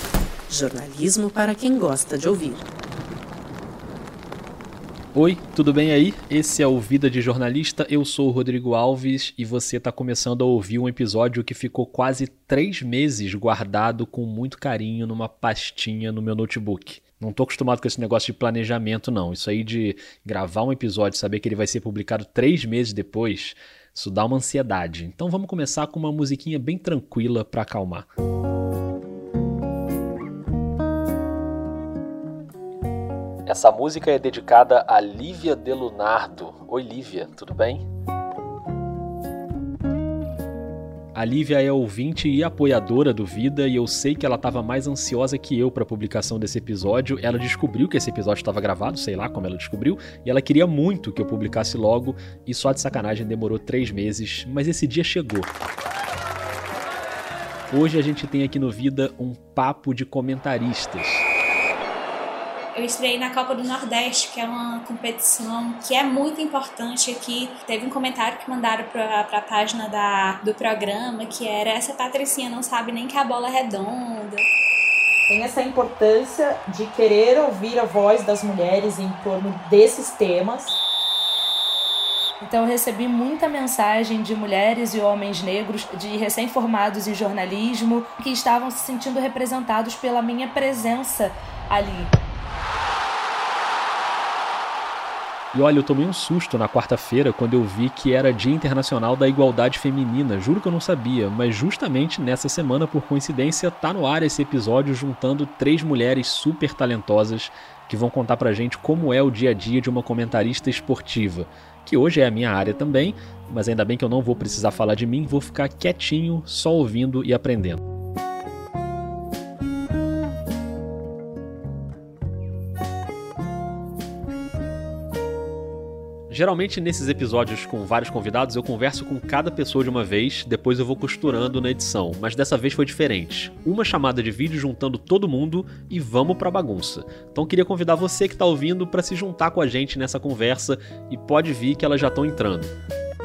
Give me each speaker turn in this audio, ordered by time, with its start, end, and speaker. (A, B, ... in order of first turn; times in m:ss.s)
0:00.5-0:02.7 A
0:05.1-0:28.1 B
0:33.5-0:37.9 B
0:41.1-0:55.5 B
0:57.7-1:01.2 B
1:02.8-1:14.4 C
1:15.3-1:20.8 D
1:22.4-1:32.1 E
1:35.5-1:57.8 B
2:06.3-2:22.7 B